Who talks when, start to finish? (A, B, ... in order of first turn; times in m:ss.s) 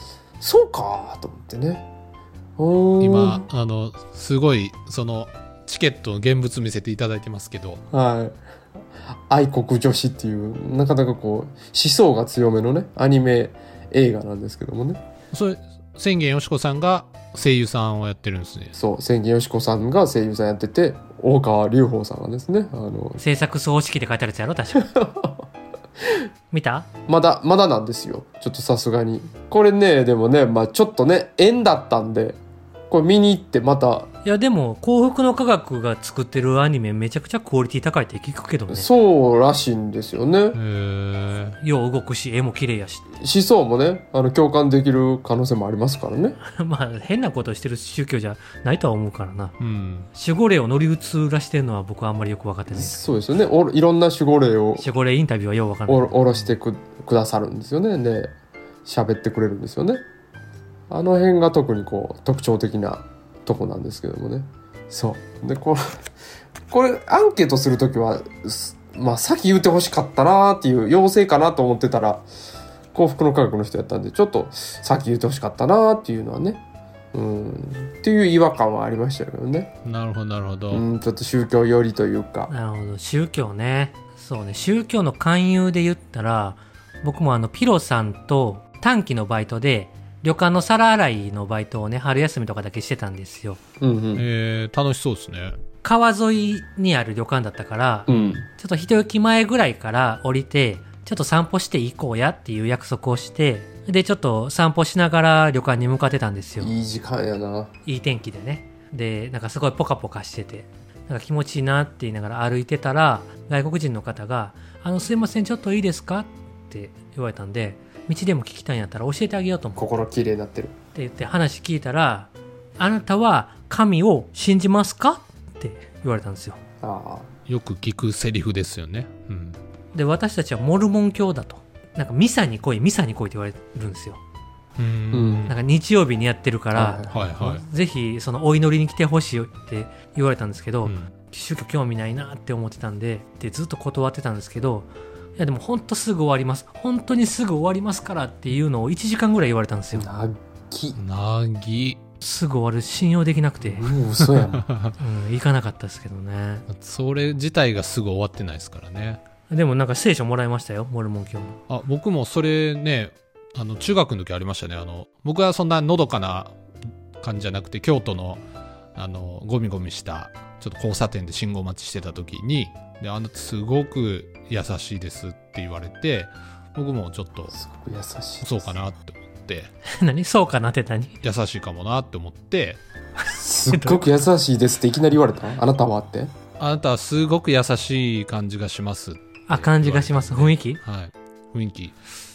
0:00.4-0:01.8 A
0:02.6-0:03.4 A
0:03.0-0:07.8 B
0:07.9-0:08.4 A
0:09.3-0:15.0 A
0:15.3-0:18.7 B
0:18.7-0:23.2 A
0:23.2-0:24.8 C
0:24.7-0:25.4 A
0:26.5-0:26.9 C
0:27.1-0:32.4 A
0:32.9-0:34.1 A
0:34.2-0:38.9 C
0:38.7-0:40.6 A
0:40.5-0:41.6 B
0:41.6-0:43.1 C
0:43.2-0:46.4 A
0:46.5-0:49.5 C
0:49.6-0:50.1 B
0:50.1-0:53.1 C
0:52.7-0:54.9 A
0:54.8-0:56.5 C
0:55.9-0:58.3 A
0:58.8-1:00.0 A
1:00.9-1:06.0 A
1:06.7-1:12.2 A
1:12.9-1:16.6 A
1:17.1-1:19.7 A
1:19.8-1:20.8 B
1:20.7-1:22.5 A
1:22.5-1:33.6 C
1:33.8-1:34.2 A
1:34.2-1:35.6 B
1:35.8-1:46.7 C
1:38.1-1:38.5 A
1:38.1-1:38.4 B
1:46.6-1:47.7 A
1:47.8-1:59.9 C
1:59.8-2:00.7 A
2:00.9-2:06.6 C
2:06.8-2:07.3 A
2:07.5-2:09.6 B
2:09.9-2:14.2 C
2:14.8-2:15.5 B
2:15.1-2:15.5 A
2:15.5-2:30.1 C
2:16.7-2:17.2 A
2:17.1-2:17.6 B
2:20.8-2:21.1 B
2:29.9-2:31.0 A
2:31.0-2:32.0 B
2:32.2-2:33.9 C
2:33.6-2:34.6 A
2:34.2-2:34.9 B
2:35.0-2:36.6 C
2:36.7-2:39.2 B
2:39.5-2:41.6 C
2:41.7-2:46.6 B
2:47.2-2:48.4 B
2:49.0-2:57.5 B
2:57.5-2:58.7 A
2:58.4-2:59.7 B
2:59.9-3:01.2 C
3:01.2-3:02.8 B
3:03.2-3:04.2 C
3:03.3-3:06.3 A
3:06.6-3:12.0 B
3:09.5-3:10.8 C